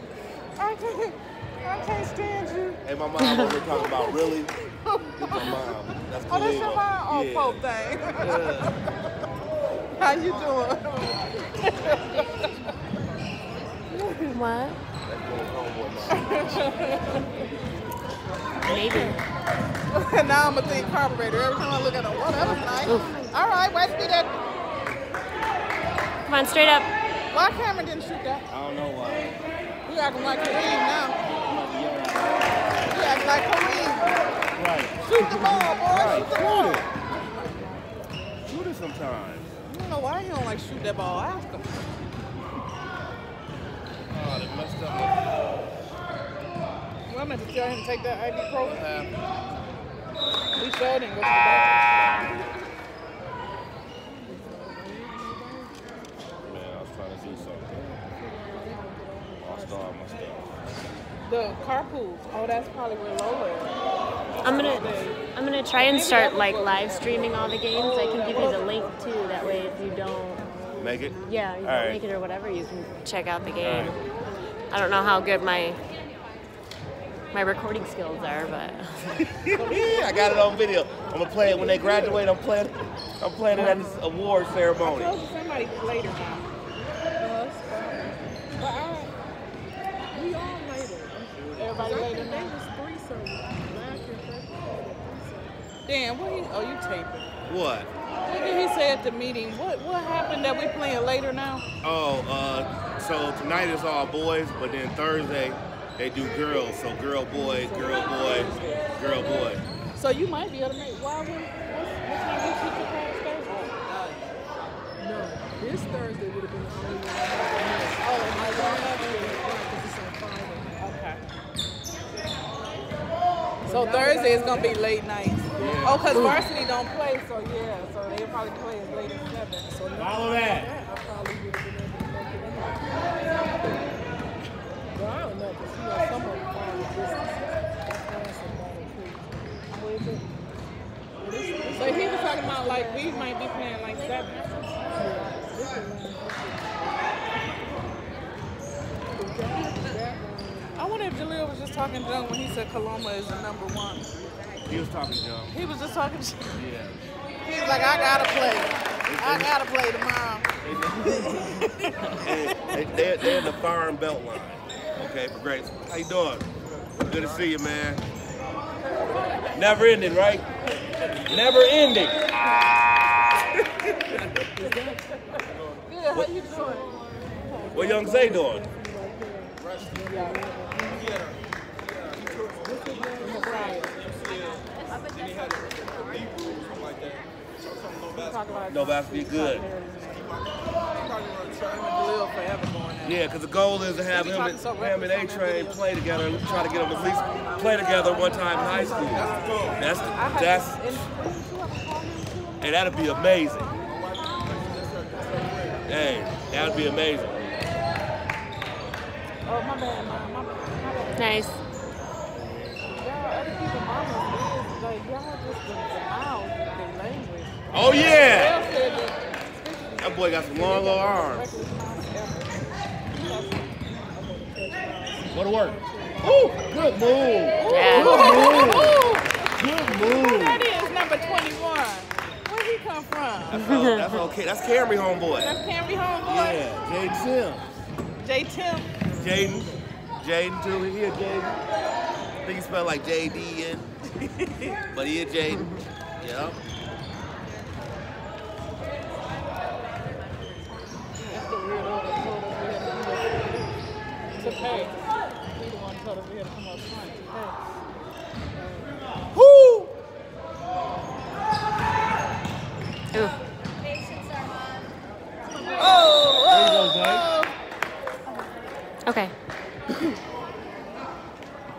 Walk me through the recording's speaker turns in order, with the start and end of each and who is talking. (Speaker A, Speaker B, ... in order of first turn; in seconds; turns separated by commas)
Speaker A: 0.6-2.8, Speaker B: 2.8-4.5, Speaker C: 3.2-3.6, Speaker A: 3.6-4.3, Speaker A: 4.8-5.7, Speaker B: 5.2-7.6, Speaker A: 6.3-8.7, Speaker B: 8.2-8.8, Speaker A: 9.9-12.5, Speaker A: 13.9-14.4, Speaker C: 14.3-14.8, Speaker B: 15.0-16.7, Speaker A: 16.1-17.2, Speaker C: 18.6-19.2, Speaker A: 19.9-24.4, Speaker C: 22.8-23.1, Speaker C: 26.2-26.9, Speaker A: 27.3-28.5, Speaker B: 28.5-29.4, Speaker A: 29.8-31.2, Speaker B: 31.2-32.9, Speaker A: 32.9-34.2, Speaker B: 34.5-36.9, Speaker A: 35.0-36.8, Speaker B: 38.5-39.5, Speaker A: 39.7-41.8, Speaker B: 44.1-45.3, Speaker A: 47.1-49.1, Speaker B: 48.6-49.2, Speaker A: 50.6-52.2, Speaker B: 51.8-52.3, Speaker D: 54.2-55.9, Speaker B: 56.4-58.0, Speaker D: 57.2-60.0, Speaker B: 59.4-60.6, Speaker A: 61.2-63.8, Speaker B: 64.3-65.0, Speaker C: 64.4-70.5, Speaker A: 64.4-65.2, Speaker A: 65.8-69.5, Speaker B: 70.8-72.0, Speaker C: 71.2-74.0, Speaker B: 73.6-74.0, Speaker C: 74.7-75.8, Speaker C: 77.3-79.0, Speaker B: 79.2-85.2, Speaker A: 79.5-80.5, Speaker A: 81.4-82.3, Speaker A: 83.5-83.8, Speaker D: 83.6-84.0, Speaker A: 84.8-86.5, Speaker D: 87.2-89.1, Speaker A: 88.6-89.0, Speaker D: 90.1-95.6, Speaker B: 91.4-91.7, Speaker A: 91.5-92.6, Speaker A: 95.9-97.3, Speaker B: 97.5-97.9, Speaker A: 98.2-101.6, Speaker B: 101.8-109.6, Speaker D: 107.3-108.9, Speaker A: 109.9-113.8, Speaker D: 115.0-120.8, Speaker A: 118.0-119.5, Speaker A: 120.8-121.2, Speaker D: 123.6-124.8, Speaker A: 123.7-129.7, Speaker B: 125.6-126.5, Speaker D: 129.7-133.1, Speaker B: 129.9-130.7, Speaker D: 134.9-140.2, Speaker D: 141.2-143.4, Speaker A: 141.7-144.5, Speaker D: 144.9-147.1, Speaker D: 149.1-150.9, Speaker A: 150.7-154.1, Speaker B: 154.7-155.5, Speaker A: 155.5-156.6, Speaker B: 156.6-157.1, Speaker A: 157.4-160.5, Speaker B: 159.1-159.5, Speaker B: 160.6-166.4, Speaker A: 161.1-162.6, Speaker B: 167.0-168.0, Speaker B: 169.5-170.4, Speaker B: 171.2-172.2, Speaker D: 174.6-175.0, Speaker A: 175.8-176.9, Speaker D: 177.6-181.2, Speaker B: 177.7-178.6, Speaker A: 180.0-180.4, Speaker D: 182.4-183.9, Speaker A: 183.2-184.0, Speaker A: 188.1-190.4, Speaker B: 188.7-189.7, Speaker A: 191.6-193.2, Speaker B: 193.0-201.1, Speaker A: 194.1-196.0, Speaker A: 196.5-199.4, Speaker D: 198.4-200.3, Speaker A: 200.1-205.5, Speaker B: 202.6-203.7, Speaker D: 204.7-205.3, Speaker B: 205.9-207.5, Speaker D: 206.6-207.1, Speaker A: 209.4-211.3, Speaker C: 211.2-211.6, Speaker B: 212.4-212.9, Speaker A: 212.9-223.7, Speaker B: 217.7-218.6, Speaker B: 220.0-221.5, Speaker D: 224.1-226.6, Speaker B: 225.3-229.0, Speaker A: 227.6-229.4, Speaker C: 227.7-228.2, Speaker B: 229.5-230.7, Speaker A: 229.9-233.7, Speaker B: 233.5-235.6, Speaker C: 233.7-234.0, Speaker A: 235.3-236.7, Speaker B: 236.2-237.6, Speaker A: 238.2-239.1, Speaker B: 239.1-241.6, Speaker B: 242.4-243.9, Speaker B: 244.9-246.6, Speaker A: 251.2-253.7, Speaker D: 254.3-254.9, Speaker A: 254.3-254.9, Speaker A: 255.5-257.6, Speaker D: 258.5-258.9, Speaker A: 259.3-259.9, Speaker A: 265.7-267.5, Speaker B: 266.5-267.3, Speaker C: 269.0-269.3